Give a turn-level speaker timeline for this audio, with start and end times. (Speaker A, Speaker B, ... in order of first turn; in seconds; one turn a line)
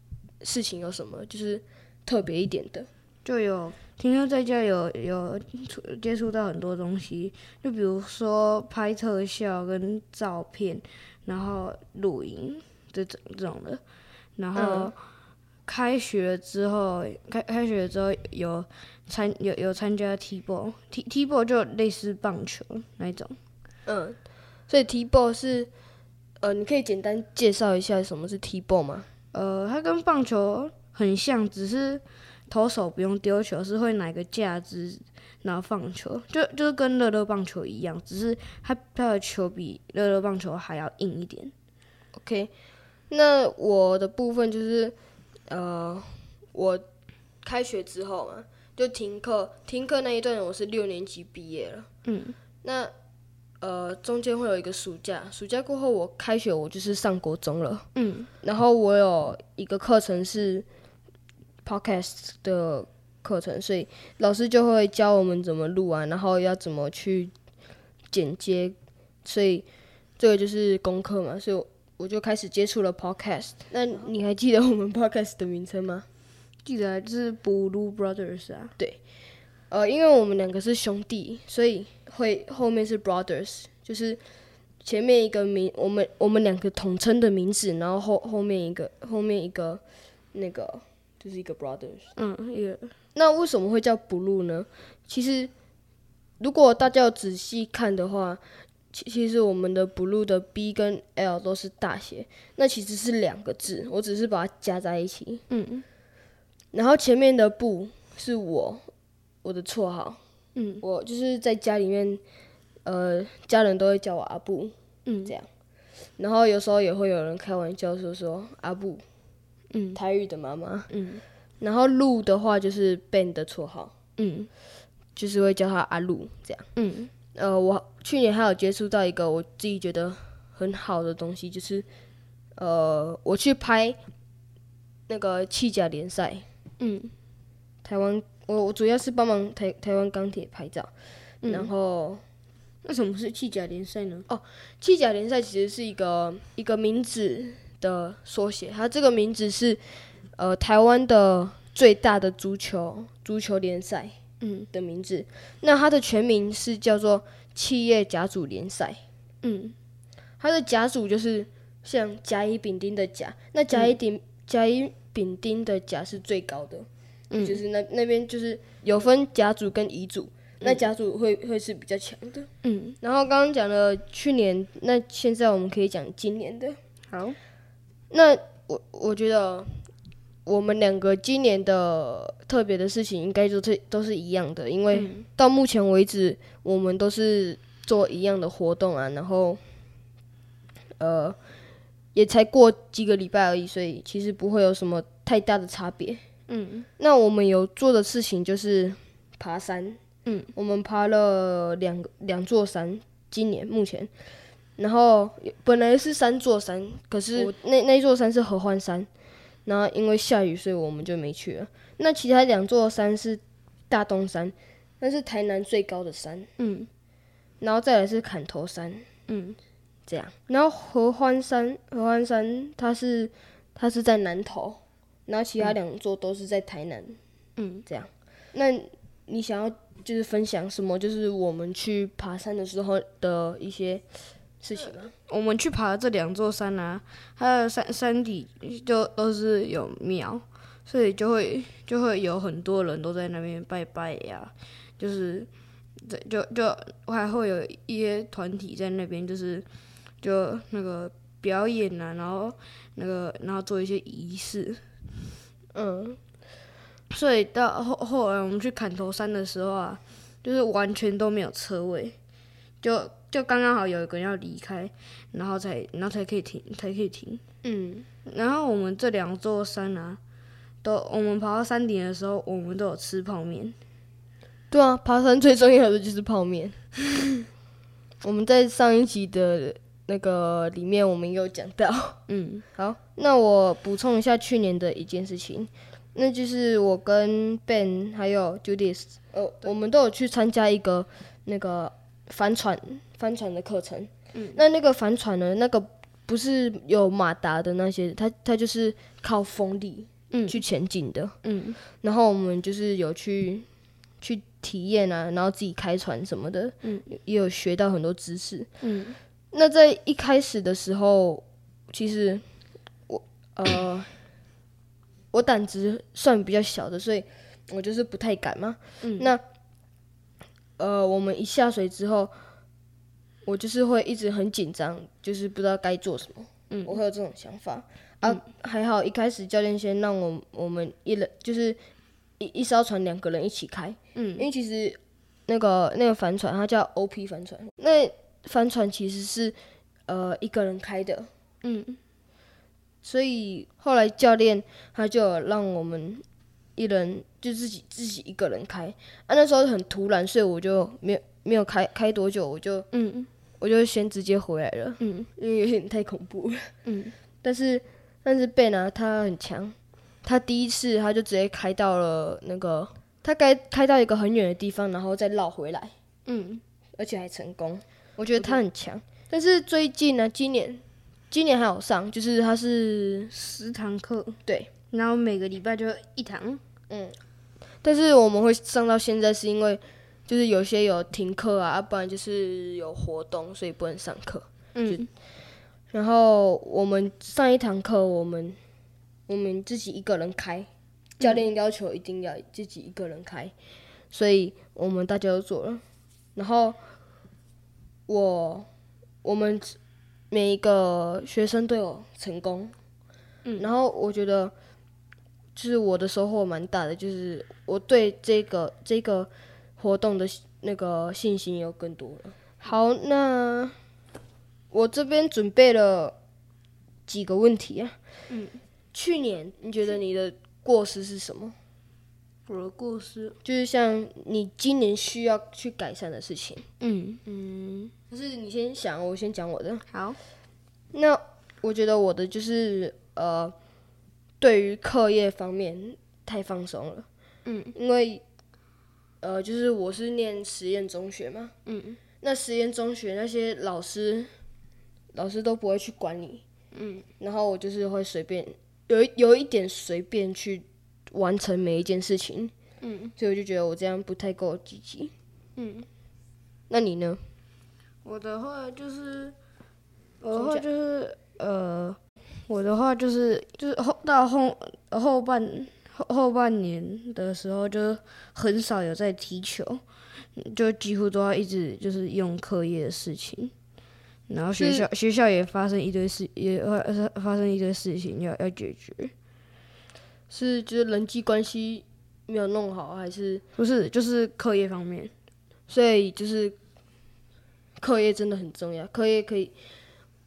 Speaker A: 0.4-2.9
Speaker B: 3.2-13.8
Speaker B: 14.4-15.0
Speaker A: 14.5-14.9
Speaker B: 15.7-23.4
Speaker A: 23.9-24.2
Speaker A: 24.7-25.7
Speaker A: 26.4-29.1
Speaker B: 29.3-41.5
Speaker A: 42.1-42.5
Speaker A: 43.1-44.9
Speaker A: 45.5-46.8
Speaker A: 47.4-51.9
Speaker B: 52.0-52.4
Speaker A: 52.6-52.9
Speaker A: 53.6-57.9
Speaker B: 57.9-58.3
Speaker A: 58.4-60.6
Speaker A: 61.6-67.3
Speaker A: 68.1-69.7
Speaker A: 70.2-76.0
Speaker B: 76.6-78.7
Speaker A: 79.7-84.2
Speaker A: 84.8-89.8
Speaker A: 90.3-92.1
Speaker B: 92.2-92.9
Speaker A: 93.1-95.5
Speaker A: 96.4-98.4
Speaker A: 98.9-105.4
Speaker B: 105.5-105.8
Speaker A: 106.7-108.8
Speaker A: 109.4-110.2
Speaker B: 110.5-110.8
Speaker A: 110.8-112.2
Speaker A: 112.8-114.7
Speaker B: 115.0-115.3
Speaker A: 116.2-119.0
Speaker B: 119.7-120.0
Speaker A: 119.9-120.9
Speaker B: 120.9-121.2
Speaker A: 121.6-123.9
Speaker B: 124.2-124.5
Speaker A: 125.2-126.7
Speaker B: 126.8-127.1
Speaker A: 127.3-131.8
Speaker A: 132.6-134.0
Speaker A: 135.1-136.4
Speaker B: 136.8-137.1
Speaker A: 137.8-140.9
Speaker B: 141.4-141.7
Speaker A: 141.4-142.2
Speaker B: 142.8-144.3
Speaker A: 144.3-149.8
Speaker A: 150.3-154.1
Speaker B: 154.4-154.7
Speaker A: 154.7-159.0
Speaker B: 159.4-159.7
Speaker A: 160.4-172.5
Speaker B: 167.3-167.6
Speaker B: 172.6-173.0
Speaker A: 173.0-176.8
Speaker B: 177.1-177.4
Speaker A: 178.1-179.8
Speaker A: 180.4-189.6
Speaker B: 184.9-185.2
Speaker A: 191.0-191.4
Speaker A: 192.1-196.2
Speaker B: 196.5-196.9
Speaker A: 197.0-200.0
Speaker B: 200.2-200.5
Speaker A: 200.5-204.1
Speaker A: 204.8-209.1
Speaker A: 209.7-216.5
Speaker B: 216.6-216.9
Speaker A: 217.6-219.0
Speaker B: 219.3-219.6
Speaker A: 220.1-227.2
Speaker B: 227.6-227.8
Speaker A: 227.8-234.0
Speaker A: 234.6-235.1
Speaker B: 235.3-245.5
Speaker B: 246.0-249.7
Speaker B: 250.2-254.8
Speaker A: 255.7-256.2
Speaker B: 257.1-262.1
Speaker B: 262.8-267.4
Speaker A: 267.6-268.1
Speaker B: 268.2-270.2
Speaker B: 270.8-273.8
Speaker A: 274.7-276.8
Speaker A: 278.2-282.2
Speaker B: 282.3-282.6
Speaker A: 282.8-301.3
Speaker B: 294.3-294.6
Speaker B: 300.3-300.6
Speaker B: 301.4-301.8
Speaker A: 302.0-303.6
Speaker A: 304.2-308.7
Speaker B: 308.8-309.2
Speaker A: 309.5-312.4
Speaker A: 313.1-314.1
Speaker A: 315.3-319.4
Speaker B: 319.0-319.3
Speaker A: 320.8-322.3
Speaker A: 323.4-331.8
Speaker B: 326.7-327.0
Speaker A: 332.4-339.5
Speaker B: 334.1-334.4
Speaker A: 340.1-341.3
Speaker B: 341.6-342.0
Speaker A: 343.0-346.2
Speaker A: 346.8-352.9
Speaker B: 352.9-353.3
Speaker A: 353.6-356.7
Speaker B: 355.0-355.3
Speaker B: 356.8-357.1
Speaker A: 357.4-365.9
Speaker B: 366.2-366.6
Speaker A: 367.0-373.3
Speaker B: 373.3-374.4
Speaker A: 374.4-374.7
Speaker B: 374.9-376.6
Speaker A: 376.9-377.1
Speaker A: 377.8-385.1
Speaker B: 384.7-385.1
Speaker A: 385.9-388.6
Speaker A: 389.3-390.7
Speaker A: 391.2-393.5
Speaker A: 394.1-395.8
Speaker A: 396.4-396.8
Speaker A: 398.1-398.7
Speaker A: 399.2-399.8
Speaker A: 400.3-402.7
Speaker B: 403.4-403.7
Speaker A: 403.6-404.5
Speaker A: 405.6-413.8
Speaker A: 414.7-416.1
Speaker A: 417.1-417.9
Speaker B: 418.3-418.6
Speaker A: 418.9-421.5
Speaker B: 422.5-423.4
Speaker A: 423.4-426.6
Speaker B: 426.8-427.9
Speaker A: 427.4-429.8
Speaker B: 429.9-430.2
Speaker A: 430.9-433.5
Speaker A: 434.4-437.1
Speaker B: 437.4-437.7
Speaker A: 437.7-438.2
Speaker A: 439.2-441.5
Speaker B: 441.6-442.0
Speaker A: 442.2-444.3
Speaker A: 445.1-446.4
Speaker B: 446.7-447.1
Speaker A: 447.2-452.5
Speaker B: 452.8-453.1
Speaker A: 453.2-455.1
Speaker B: 455.6-455.9
Speaker A: 456.7-457.2
Speaker B: 458.0-459.4
Speaker B: 460.2-469.8
Speaker A: 460.3-460.7
Speaker B: 470.4-473.5
Speaker B: 474.3-479.1
Speaker A: 474.5-474.9
Speaker A: 480.3-483.4
Speaker B: 483.6-485.1
Speaker A: 485.7-486.6
Speaker A: 487.8-489.5